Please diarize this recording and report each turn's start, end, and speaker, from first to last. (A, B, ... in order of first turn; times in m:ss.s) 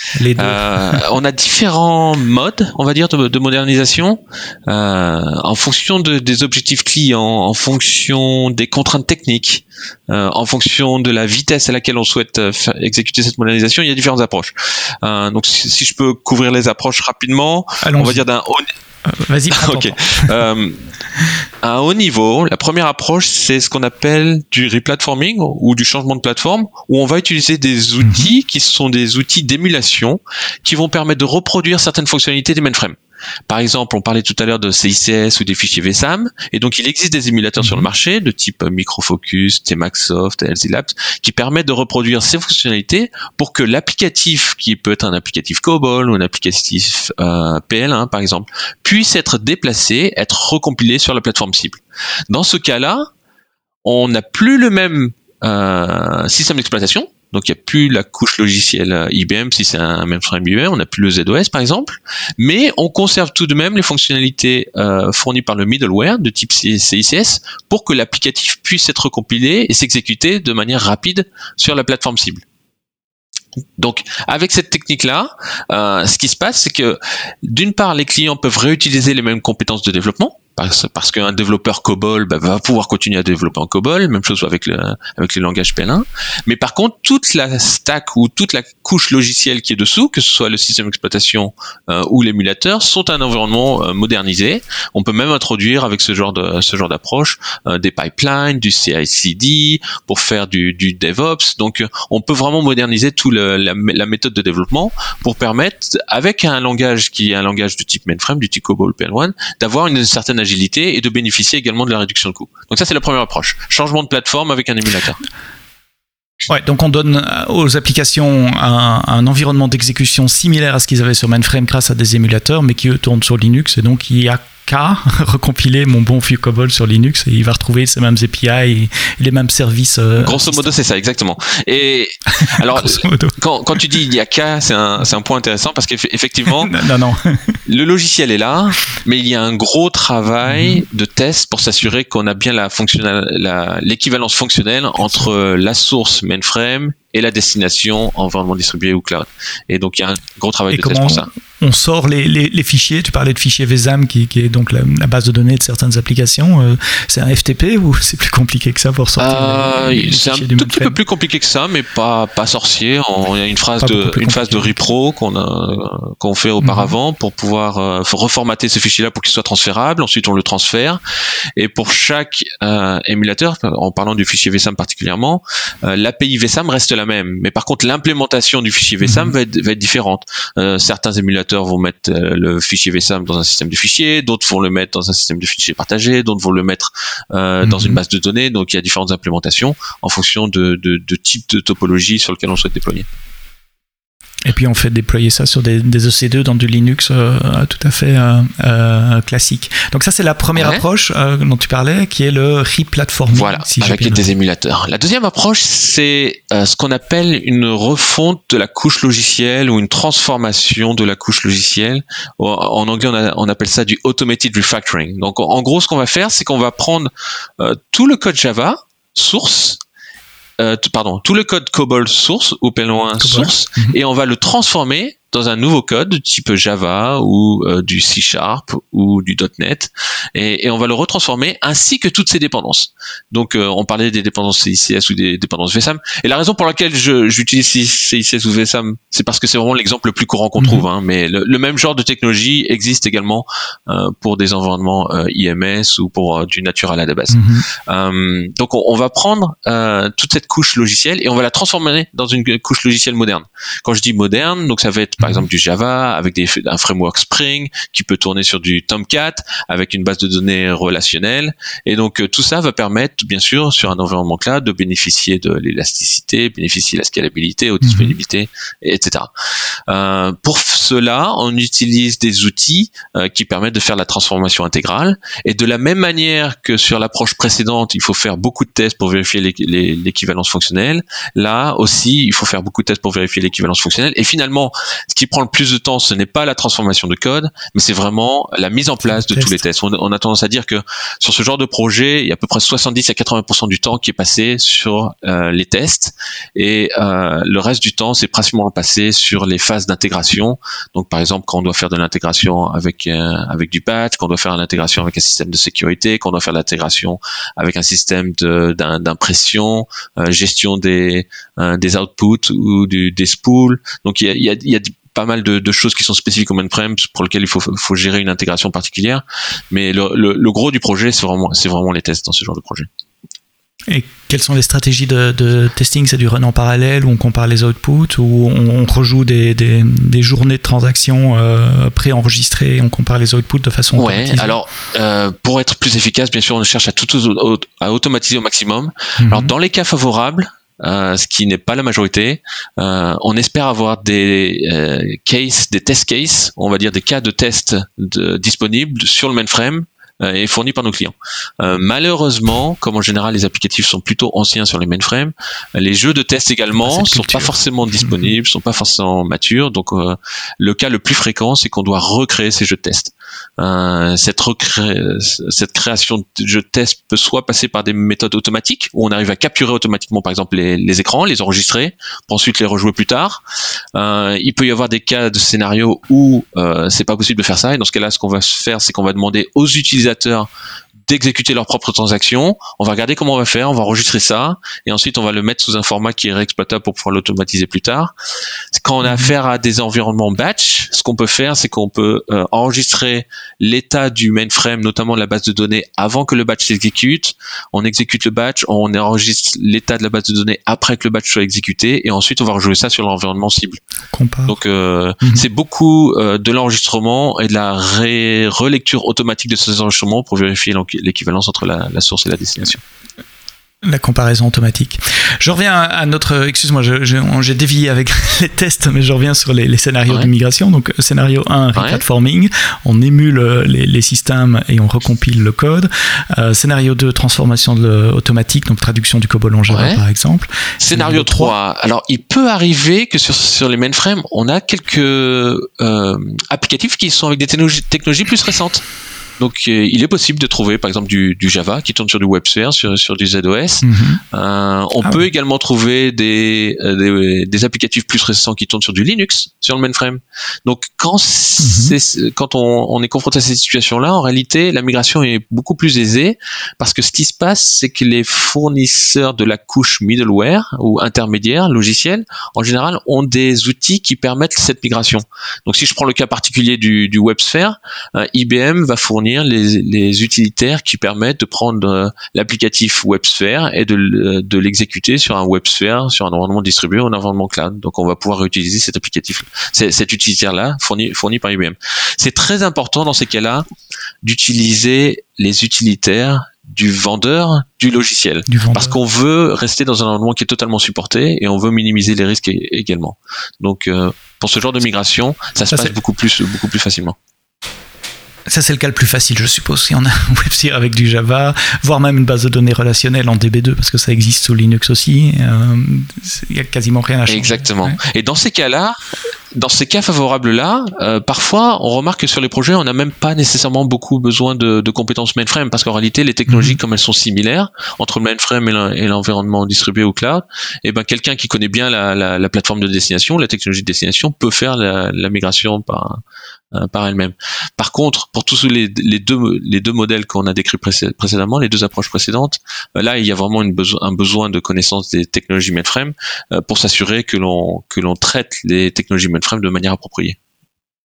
0:00.1-0:01.0 A
0:00.4-0:18.7 B
0:17.8-0:18.2 A
0:19.0-0:20.3 A
0:19.5-0:20.8 B
0:21.6-0:33.0 B
0:28.0-0:28.3 A
0:33.5-0:53.0 B
0:37.6-0:37.8 A
0:53.8-1:12.4 B
1:13.8-1:55.2 B
1:56.5-2:10.8 A
2:10.2-2:16.7 B
2:12.4-2:14.0 A
2:16.5-2:17.6 A
2:17.6-2:31.3 B
2:20.4-2:20.8 A
2:25.0-2:25.3 A
2:30.7-2:41.0 A
2:39.2-2:51.0 B
2:43.8-2:44.8 A
2:46.6-2:46.9 A
2:51.6-3:13.1 B
2:59.0-2:59.3 A
3:07.6-3:08.0 A
3:14.4-3:24.2 A
3:20.6-3:20.8 B
3:23.3-3:39.8 B
3:40.6-4:29.3 B
3:43.2-3:44.0 A
4:00.6-4:00.8 A
4:07.3-4:07.6 A
4:27.8-4:28.1 A
4:29.9-5:22.9 B
4:49.0-4:49.6 A
5:23.9-5:34.6 A
5:34.0-6:13.4 B
5:39.2-5:39.5 A
5:56.8-5:58.3 A
6:13.9-6:20.5 B
6:21.1-6:28.1 B
6:28.7-6:43.8 B
6:44.1-6:44.6 A
6:44.5-6:52.8 B
6:53.8-7:11.5 A
7:01.7-7:02.0 B
7:09.7-7:10.0 B
7:10.8-7:18.8 B
7:19.4-8:03.6 B
7:23.8-7:24.2 A
7:31.6-7:32.0 A
8:04.2-8:17.2 B
8:08.5-8:09.0 A
8:18.5-8:28.0 A
8:27.3-8:29.0 B
8:29.5-8:46.2 B
8:36.5-8:36.8 A
8:46.7-9:00.4 B